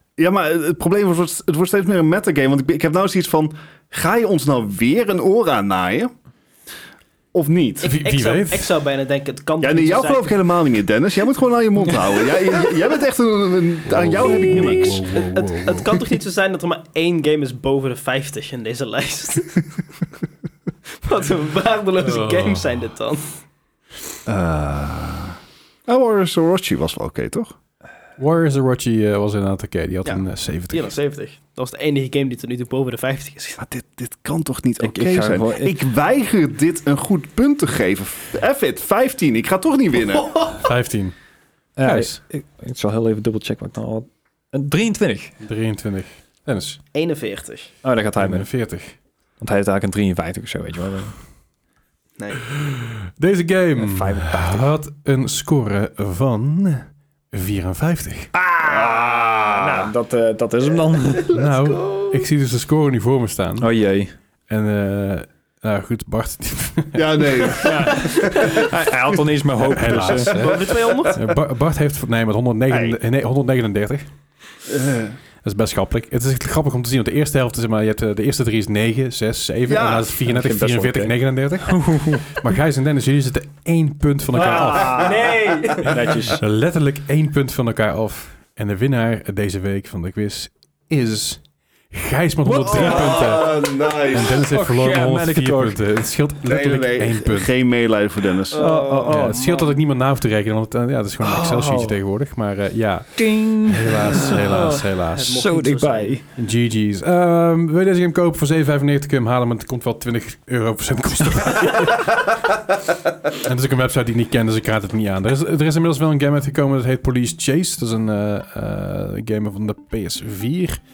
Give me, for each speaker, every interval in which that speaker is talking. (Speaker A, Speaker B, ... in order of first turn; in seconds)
Speaker A: 0.2-6.1, 7.3-7.9, 9.6-15.0, 24.3-27.5, 33.6-40.5, 58.5-59.9, 67.0-68.7, 70.5-71.1, 72.7-73.0, 74.7-75.2, 79.7-80.1, 84.9-85.3, 92.5-94.4, 96.4-98.7
Speaker B: 7.8-10.5, 14.2-19.8, 21.0-23.4, 30.7-33.6, 46.9-47.7, 61.4-62.2, 70.0-71.2, 84.4-86.2, 98.5-99.8, 104.3-106.1
Speaker C: 7.8-8.7, 13.8-16.0, 22.0-22.8, 28.2-30.9, 40.6-41.1, 41.8-42.2, 45.4-46.8, 48.2-49.0, 52.5-58.3, 61.3-63.7, 64.5-67.7, 69.7-74.1, 75.4-85.3, 85.8-97.5, 99.1-105.4, 106.4-112.3, 113.3-120.8
Speaker D: 34.8-35.8, 41.8-45.4, 47.8-48.5, 49.4-51.1, 53.8-54.7, 58.6-61.4, 63.6-64.1, 67.6-70.4, 80.3-81.2, 81.7-82.4, 84.3-86.4, 92.7-93.2, 94.3-95.8, 98.5-99.4, 101.2-102.0, 103.2-106.2